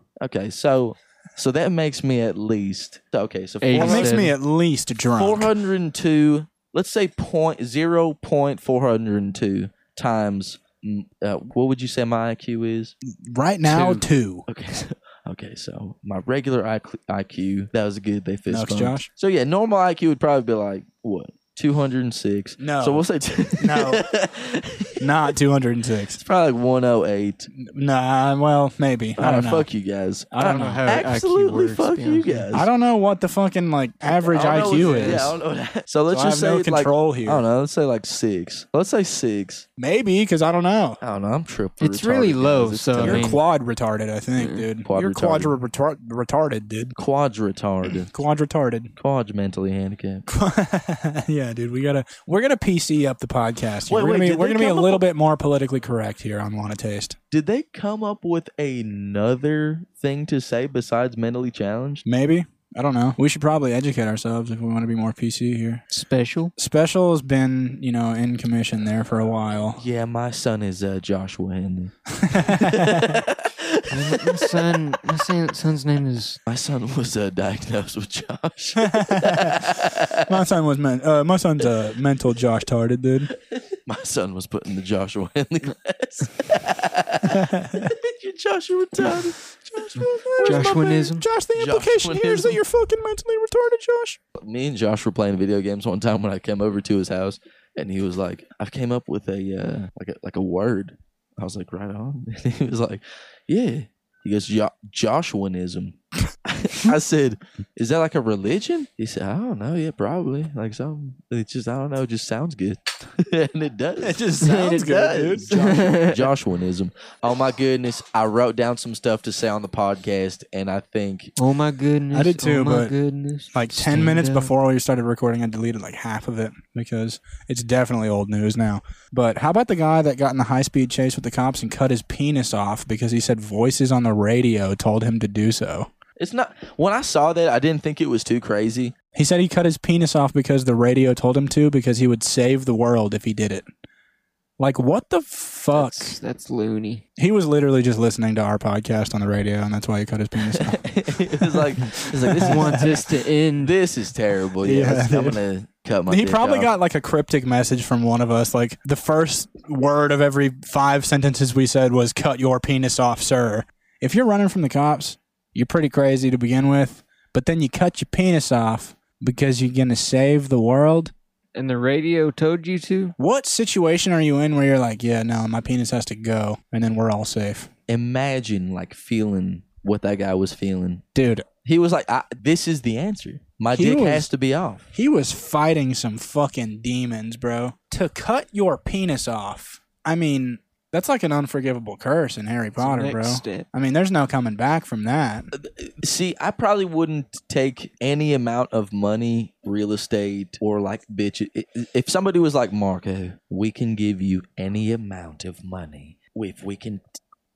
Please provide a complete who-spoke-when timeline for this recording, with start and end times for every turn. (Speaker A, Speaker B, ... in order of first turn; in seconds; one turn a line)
Speaker A: 0.2-4.2
Speaker B: 3.6-4.3
Speaker C: 3.8-5.5
Speaker A: 5.2-12.9
Speaker C: 13.1-14.4
Speaker B: 13.7-14.1
Speaker A: 14.5-25.1
Speaker C: 18.5-19.1
Speaker C: 22.6-23.1
Speaker C: 23.6-24.1
Speaker C: 25.0-26.2
Speaker A: 26.2-27.5
Speaker C: 27.6-29.7
Speaker A: 29.2-30.3
Speaker C: 30.3-30.9
Speaker B: 30.4-32.5
Speaker A: 30.9-32.7
Speaker C: 32.5-35.4
Speaker A: 34.1-39.7
Speaker B: 34.4-35.3
Speaker C: 36.1-37.4
Speaker C: 39.8-41.0
Speaker A: 41.0-43.3
Speaker B: 41.8-43.4
Speaker C: 43.0-46.9
Speaker B: 44.4-44.7
Speaker A: 44.9-45.6
Speaker A: 47.0-48.1
Speaker C: 48.1-48.9
Speaker A: 49.0-50.3
Speaker C: 50.3-57.2
Speaker A: 53.9-55.0
Speaker A: 57.3-62.0
Speaker C: 62.0-65.8
Speaker B: 65.9-66.5
Speaker C: 66.6-69.8
Speaker A: 69.8-74.5
Speaker C: 72.2-73.2
Speaker B: 73.9-76.4
Speaker A: 76.5-80.3
Speaker C: 78.8-79.6
Speaker C: 80.3-83.3
Speaker A: 83.5-90.6
Speaker C: 87.3-87.9
Speaker C: 89.7-94.2
Speaker B: 90.4-91.3
Speaker A: 91.5-92.6
Speaker A: 94.4-121.3
Speaker C: 114.0-115.9
Speaker B: 115.5-116.3
Speaker B: 121.4-124.5
Speaker C: 122.1-122.9
Speaker C: 123.5-135.9
Speaker A: 136.2-138.9
Speaker C: 139.2-143.7
Speaker C: 144.6-146.1
Speaker B: 145.7-147.0
Speaker C: 147.2-151.7
Speaker A: 150.6-153.0
Speaker B: 152.3-153.8
Speaker C: 152.4-153.0
Speaker A: 153.6-156.7
Speaker C: 154.6-155.4
Speaker C: 156.1-171.1
Speaker B: 171.6-173.2
Speaker C: 173.2-177.7
Speaker A: 177.9-181.0
Speaker C: 181.2-181.5
Speaker A: 181.6-184.9
Speaker C: 183.8-184.3
Speaker C: 184.9-195.5
Speaker B: 192.8-193.7
Speaker A: 195.5-207.0